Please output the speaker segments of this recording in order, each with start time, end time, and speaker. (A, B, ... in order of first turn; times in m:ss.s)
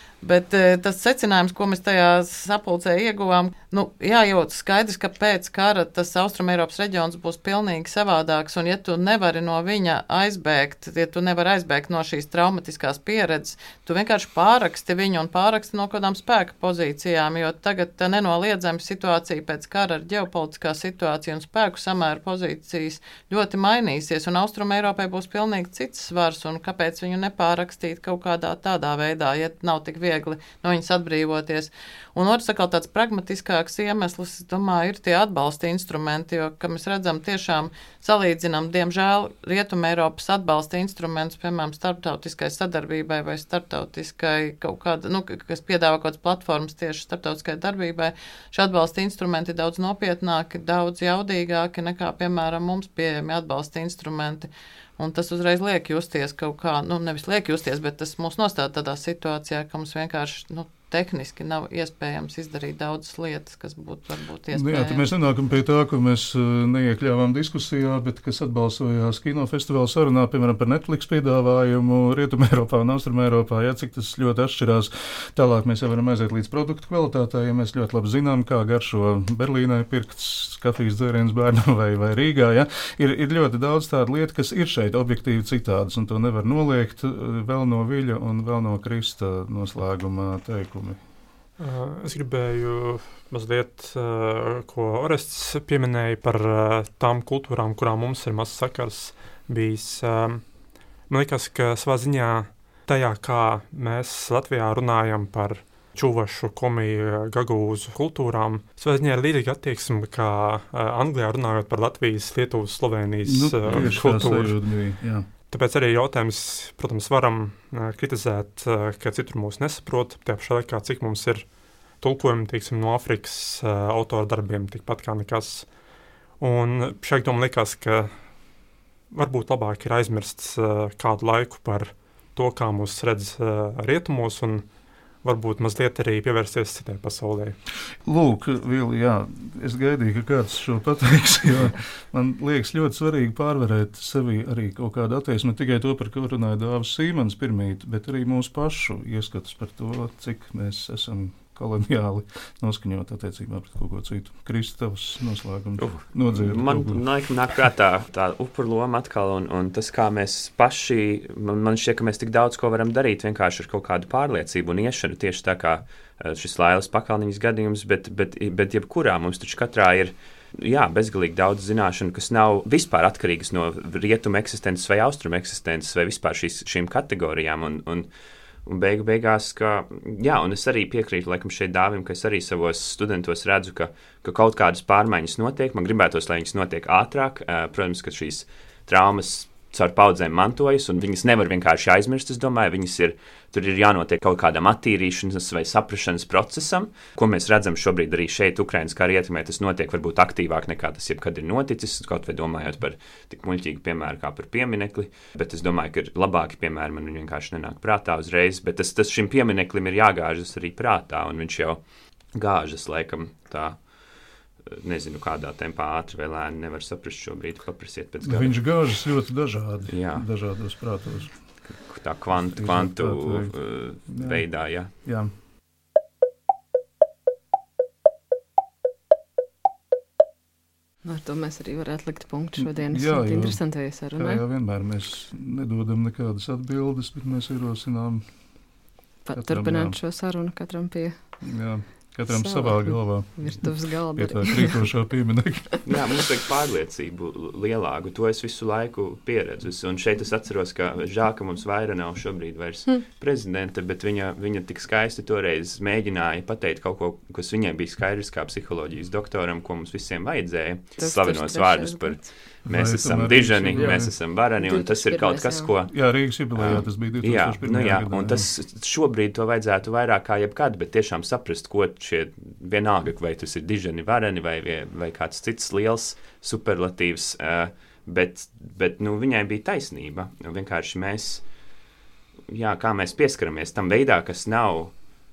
0:00.2-1:05.0 A
1:04.5-1:31.0 B
1:31.6-1:40.5 C
1:41.1-1:54.9 C
1:53.2-1:55.3 B
1:55.5-2:01.5 C
2:02.0-2:05.7 C
2:06.4-2:08.1 C
2:09.1-2:14.7 C
2:15.2-2:17.6 C
2:18.0-2:37.0 B
2:35.8-2:58.1 D
2:58.6-3:31.8 D
3:32.4-3:33.8 D
3:34.6-3:38.6 D
3:38.2-3:41.5 B
3:39.9-3:40.4 D
3:41.6-3:44.9 D
3:42.3-3:45.3 B
3:51.0-3:54.4 E
3:52.6-3:58.4 B
3:59.2-4:01.4 E
3:59.3-4:00.0 B
4:01.4-4:05.8 B
4:02.3-4:04.9 E
4:05.8-4:41.4 D
4:21.0-4:22.3 E
4:22.7-4:24.2 B
4:23.8-4:25.8 E
4:25.9-4:28.5 B
4:42.5-4:44.9 D